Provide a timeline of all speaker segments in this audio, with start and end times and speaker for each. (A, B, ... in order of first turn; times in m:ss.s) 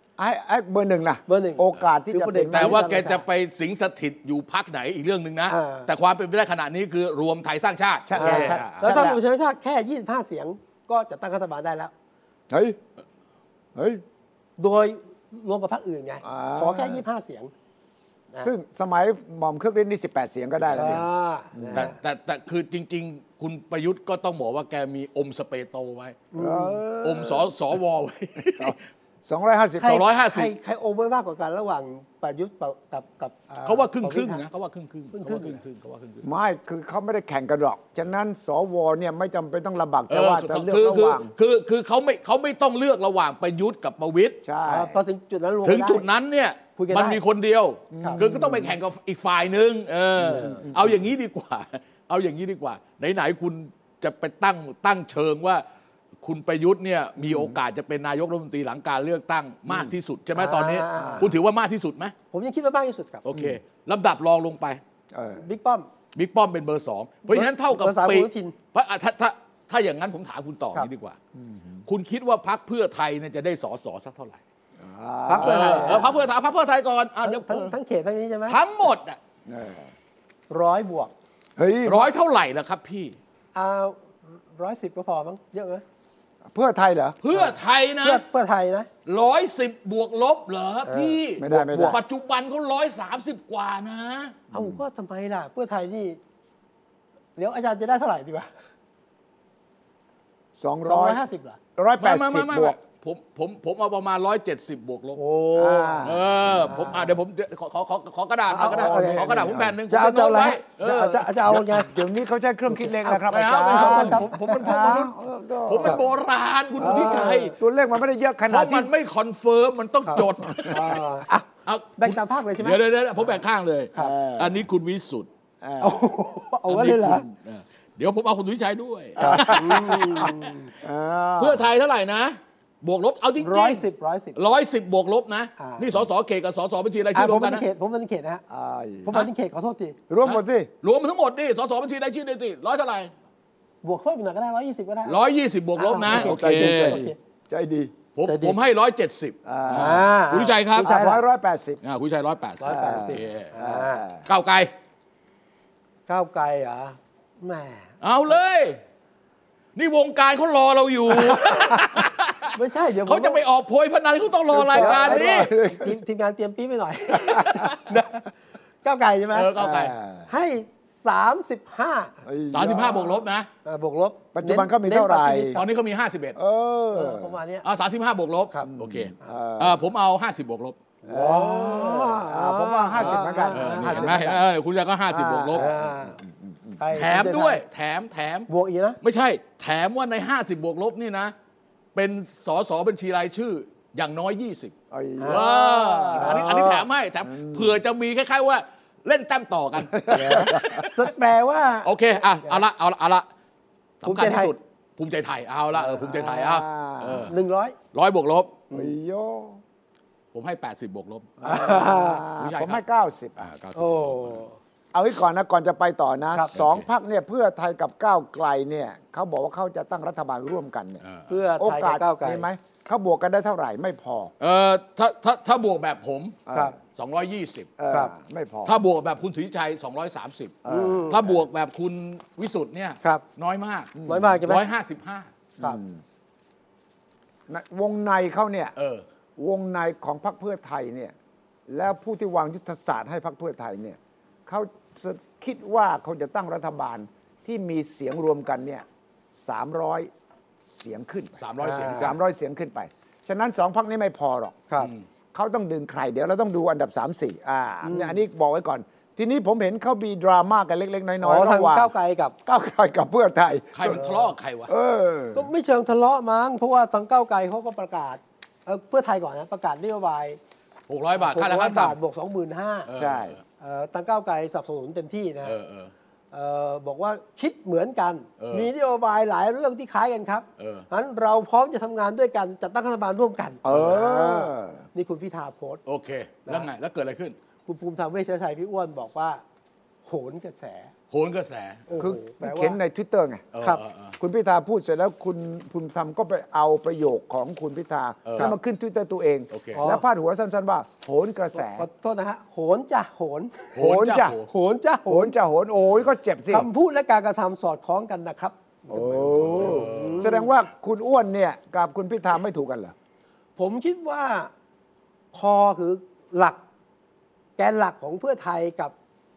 0:00.2-0:02.8 A
0:01.3-0:03.2 B
0:02.5-0:09.1 C
0:05.5-0:05.9 B
0:08.1-0:09.2 A
0:08.2-0:11.9 B
0:12.5-0:12.8 A
0:13.8-0:14.0 A
0:14.6-0:17.5 B
0:16.2-0:17.0 A
0:18.4-0:21.0 A
0:20.6-0:21.0 C
0:20.7-0:21.9 B
0:21.5-0:21.9 A
0:21.7-0:26.2 C
0:26.3-0:27.4 B
0:26.4-0:27.3 A
0:27.0-0:28.8 C
0:28.4-0:30.0 A
0:29.8-0:34.4 B
0:29.8-0:30.5 C
0:33.6-0:36.2 C
0:35.1-0:35.6 B
0:36.2-0:41.3 A
0:40.1-0:44.4 C
0:44.4-0:45.0 A
0:44.6-0:46.0 B
0:45.6-0:55.6 C
0:46.8-0:47.2 B
0:47.9-0:48.7 A
0:50.2-0:51.0 A
0:50.3-0:50.6 B
0:56.2-1:02.1 C
0:57.2-0:57.6 A
1:00.3-1:01.3 B
1:01.0-1:01.3 A
1:02.3-1:03.2 B
1:03.2-1:04.8 C
1:05.1-1:05.4 A
1:05.4-1:05.9 B
1:06.1-1:11.2 C
1:07.3-1:08.5 B
1:11.4-1:11.8 A
1:11.8-1:14.4 C
1:14.8-1:16.2 A
1:15.3-1:16.1 B
1:15.4-1:17.7 C
1:17.2-1:18.6 B
1:18.5-1:19.2 C
1:19.5-1:19.9 A
1:20.5-1:21.1 B
1:21.6-1:22.1 A
1:21.8-1:23.2 C
1:23.5-1:25.8 B
1:26.5-1:27.2 A
1:27.2-1:28.2 C
1:27.3-1:28.9 B
1:29.0-1:34.4 C
1:30.9-1:31.2 B
1:31.4-1:32.0 A
1:31.7-1:32.0 B
1:34.5-1:34.8 A
1:34.5-1:36.2 B
1:37.4-1:38.5 B
1:40.6-1:41.2 A
1:40.8-1:41.6 B
1:41.8-1:42.8 A
1:42.0-1:45.2 C
1:45.2-1:46.1 B
1:45.6-1:46.9 A
1:46.0-1:51.6 C
1:46.6-1:47.1 B
1:48.5-1:51.9 B
1:48.6-1:49.8 A
1:51.5-1:56.0 A
1:52.7-1:54.7 B
1:53.3-1:55.1 C
1:55.6-1:57.5 C
1:56.8-1:57.5 B
1:56.8-1:58.9 A
1:58.5-2:01.0 C
2:00.0-2:01.4 B
2:01.6-2:05.3 C
2:02.0-2:02.8 B
2:04.0-2:04.6 A
2:05.6-2:06.0 A
2:05.8-2:07.2 B
2:06.7-2:10.4 C
2:09.2-2:10.7 B
2:09.2-2:10.0 A
2:10.8-2:11.6 A
2:11.4-2:17.6 C
2:13.4-2:14.4 B
2:15.6-2:15.9 B
2:17.1-2:18.4 B
2:18.5-2:19.2 A
2:19.0-2:20.0 B
2:20.1-2:20.7 A
2:20.2-2:23.1 C
2:23.8-2:25.2 B
2:25.0-2:27.0 C
2:25.8-2:27.2 B
2:26.1-2:27.9 A
2:28.1-2:30.9 C
2:28.2-2:28.6 B
2:29.4-2:30.1 A
2:29.7-2:31.2 B
2:30.8-2:31.8 A
2:31.8-2:33.5 C
2:32.6-2:34.0 B
2:32.6-2:34.2 A
2:34.3-2:34.7 C
2:36.1-2:37.9 B
2:38.0-2:38.8 C
2:39.8-2:45.5 C
2:41.1-2:41.9 B
2:42.5-2:43.4 B
2:44.5-2:46.0 A
2:44.7-2:48.2 B
2:47.3-2:47.8 C
2:48.8-2:49.5 B
2:49.3-2:50.0 C
2:49.6-2:50.3 A
2:50.3-2:52.2 B
2:52.2-2:53.2 A
2:52.5-2:53.5 C
2:53.6-2:55.6 B
2:54.3-2:55.6 A
2:55.5-2:56.4 C
2:56.3-2:57.3 A
2:56.9-2:57.6 B
2:57.6-3:00.8 C
2:58.6-2:59.8 A
3:01.0-3:04.3 B
3:01.1-3:04.4 A
3:03.0-3:05.7 C
3:05.1-3:06.8 A
3:05.5-3:06.2 B
3:06.8-3:07.6 B
3:06.9-3:08.5 C
3:08.5-3:09.0 B
3:09.0-3:11.3 C
3:11.9-3:14.7 C
3:14.9-3:17.7 A
3:15.2-3:16.8 B
3:15.3-3:21.0 C
3:19.8-3:20.9 A
3:20.2-3:22.6 B
3:21.8-3:23.2 C
3:24.0-3:27.3 C
3:24.0-3:24.5 B
3:25.8-3:27.3 A
3:27.3-3:27.8 B
3:27.9-3:28.6 C
3:28.7-3:29.6 A
3:30.3-3:31.4 C
3:31.4-3:33.4 A
3:31.4-3:32.2 B
3:32.4-3:32.8 C
3:33.4-3:34.4 C
3:33.7-3:34.6 B
3:34.9-3:41.0 A
3:36.5-3:36.8 C
3:41.0-3:41.3 C
3:41.3-3:42.5 B
3:41.6-3:44.3 A
3:44.4-3:46.4 C
3:46.5-3:46.8 A
3:46.9-3:47.7 C
3:47.8-3:48.8 A
3:48.6-3:50.6 C
3:50.6-3:51.4 A
3:50.7-3:51.2 B
3:51.1-3:55.3 C
3:53.9-3:54.4 A
3:54.1-3:54.6 B
3:55.6-3:56.0 A
3:57.5-3:58.7 A
3:58.8-3:59.0 C
3:59.4-4:01.1 A
4:01.7-4:08.8 A
4:09.4-4:10.1 A
4:10.7-4:14.6 A
4:11.4-4:12.2 C
4:11.6-4:12.1 B
4:15.3-4:21.9 A
4:17.8-4:18.2 B
4:21.2-4:22.3 B
4:22.4-4:24.0 A
4:23.7-4:24.7 C
4:23.9-4:24.2 B
4:24.7-4:25.5 A
4:25.3-4:30.4 B
4:30.9-4:32.0 C
4:31.2-4:32.9 B
4:32.9-4:33.4 C
4:33.0-4:33.4 A
4:33.6-4:35.6 B
4:35.4-4:35.9 C
4:36.3-4:45.8 B
4:38.4-4:38.7 C
4:40.6-4:40.9 C
4:43.6-4:44.8 A
4:43.7-4:44.0 C
4:45.8-4:47.4 C
4:47.6-4:49.4 B
4:50.0-4:50.9 B
4:51.1-4:51.9 C
4:51.9-4:52.8 B
4:52.0-4:53.4 A
4:53.5-4:54.1 C
4:54.2-5:01.9 A
4:58.2-4:58.5 C
4:59.5-4:59.8 C
4:59.7-5:00.0 B
5:01.5-5:03.8 B
5:03.8-5:04.4 A
5:03.8-5:04.5 C
5:04.5-5:05.3 B
5:05.0-5:06.7 A
5:06.5-5:10.5 B
5:08.9-5:12.9 A
5:09.3-5:10.3 C
5:13.6-5:14.5 B
5:15.3-5:16.6 B
5:17.6-5:18.9 B